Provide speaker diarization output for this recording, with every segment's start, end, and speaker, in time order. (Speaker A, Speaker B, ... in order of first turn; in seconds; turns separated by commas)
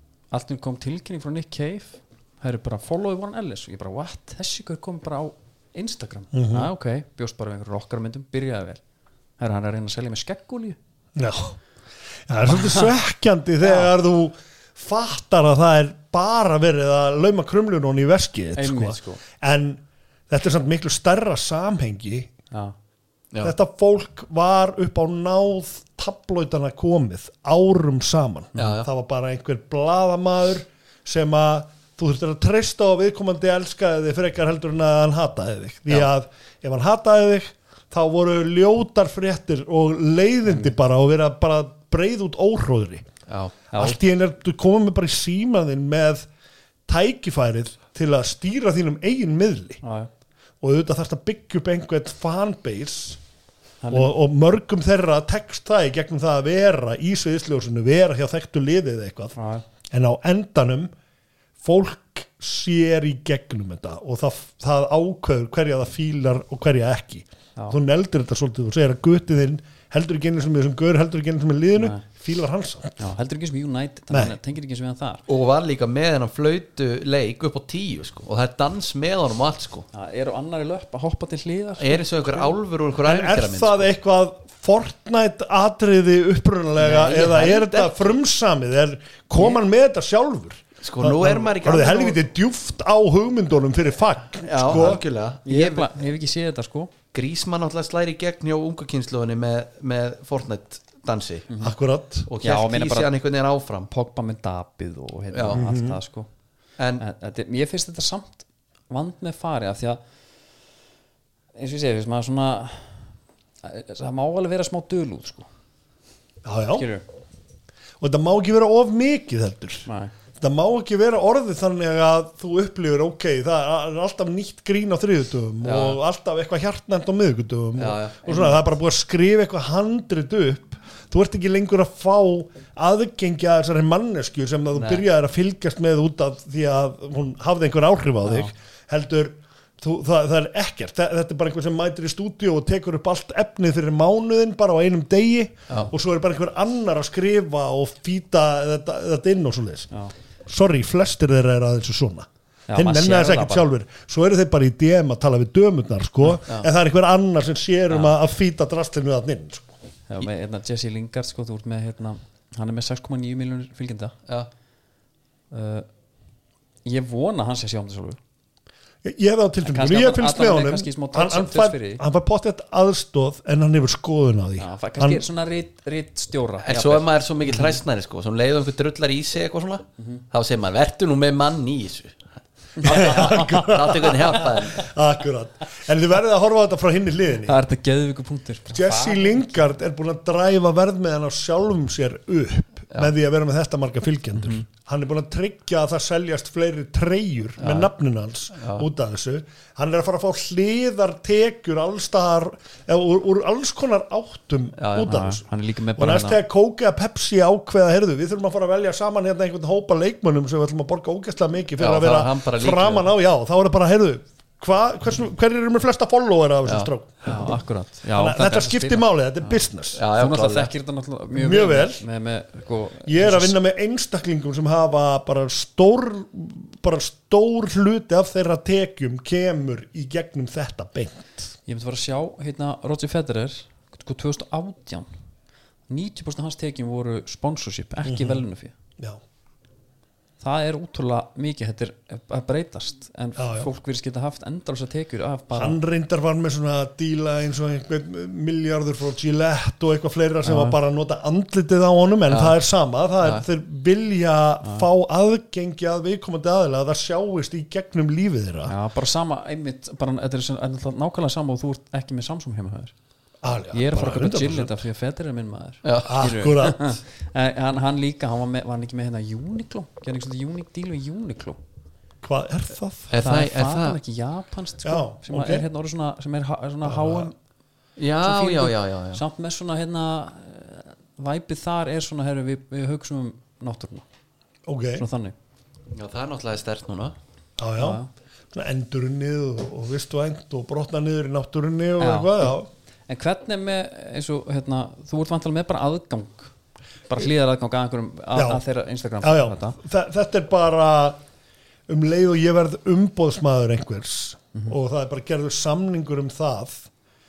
Speaker A: 0.3-8.8, Speaker B: 6.3-6.7, Speaker A: 9.4-10.8, Speaker B: 11.2-11.6, Speaker B: 12.3-22.3, Speaker A: 12.5-12.9, Speaker A: 13.6-13.9, Speaker A: 18.6-19.2, Speaker B: 23.4-43.0, Speaker C: 28.6-28.9, Speaker A: 40.5-40.7, Speaker C: 43.3-43.5, Speaker A: 43.7-44.0, Speaker B: 43.7-46.2, Speaker B: 46.9-49.8, Speaker A: 49.8-50.1, Speaker B: 50.6-53.2, Speaker A: 53.8-54.1, Speaker B: 53.9-59.4, Speaker A: 59.4-59.6, Speaker B: 59.9-60.9, Speaker B: 61.6-73.0, Speaker A: 71.8-72.0, Speaker A: 73.0-75.2, Speaker B: 74.1-74.3, Speaker C: 75.3-79.9, Speaker A: 79.9-82.0, Speaker C: 81.8-83.9, Speaker B: 83.0-95.0, Speaker C: 86.8-88.1, Speaker C: 90.8-92.2, Speaker C: 94.4-95.9, Speaker A: 95.4-96.9, Speaker C: 97.1-101.5, Speaker A: 101.5-101.7, Speaker B: 101.6-102.3, Speaker C: 102.3-103.9, Speaker A: 102.4-103.1, Speaker A: 103.9-106.3, Speaker C: 105.3-105.6, Speaker B: 105.5-106.0, Speaker C: 106.8-107.0, Speaker A: 107.0-110.0, Speaker A: 111.5-113.0, Speaker A: 113.6-115.5, Speaker B: 116.4-116.9, Speaker A: 116.7-117.0, Speaker B: 118.0-119.9, Speaker A: 119.8-120.1, Speaker B: 120.4-149.9, Speaker C: 125.6-126.0, Speaker C: 127.8-128.2, Speaker A: 128.2-128.6, Speaker C: 134.7-135.0, Speaker A: 138.2-138.5, Speaker B: 150.4-159.7, Speaker A: 152.7-153.7, Speaker A: 160.1-164.1, Speaker A: 165.5-165.9, Speaker A: 166.8-168.2, Speaker B: 169.0-175.2, Speaker A: 169.6-172.0, Speaker A: 174.6-177.1, Speaker C: 176.6-182.2, Speaker A: 182.8-184.1, Speaker C: 182.8-184.9, Speaker B: 182.8-187.6, Speaker A: 187.4-189.7, Speaker B: 188.7-205.4, Speaker C: 197.6-197.9, Speaker C: 198.6-198.9, Speaker C: 204.8-205.2, Speaker A: 205.0-206.4, Speaker B: 206.0-217.5, Speaker C: 211.8-213.1, Speaker A: 217.2-219.6, Speaker B: 218.1-220.0, Speaker C: 219.9-220.7, Speaker A: 220.1-223.6, Speaker B: 221.3-222.0, Speaker B: 223.1-231.5, Speaker A: 231.7-235.1, Speaker A: 235.9-238.7, Speaker B: 238.0-238.4, Speaker A: 240.4-245.8, Speaker B: 243.4-243.7, Speaker B: 245.5-258.7, Speaker A: 250.4-250.8, Speaker C: 252.3-252.6, Speaker A: 258.6-262.9, Speaker B: 263.4-264.8, Speaker A: 263.7-271.6, Speaker C: 265.8-266.2, Speaker B: 266.1-267.0, Speaker B: 272.2-273.1, Speaker C: 273.1-274.0, Speaker A: 273.2-277.3, Speaker B: 274.8-275.6, Speaker B: 276.8-277.3, Speaker C: 278.0-279.2, Speaker A: 278.2-284.0, Speaker B: 284.6-285.0, Speaker A: 285.0-285.3, Speaker C: 285.9-287.1, Speaker B: 287.6-288.0, Speaker A: 287.8-288.1, Speaker B: 288.5-292.7, Speaker A: 292.0-292.6, Speaker A: 293.1-296.5, Speaker A: 297.1-299.8, Speaker B: 298.3-298.6, Speaker B: 299.2-301.2, Speaker B: 301.9-306.9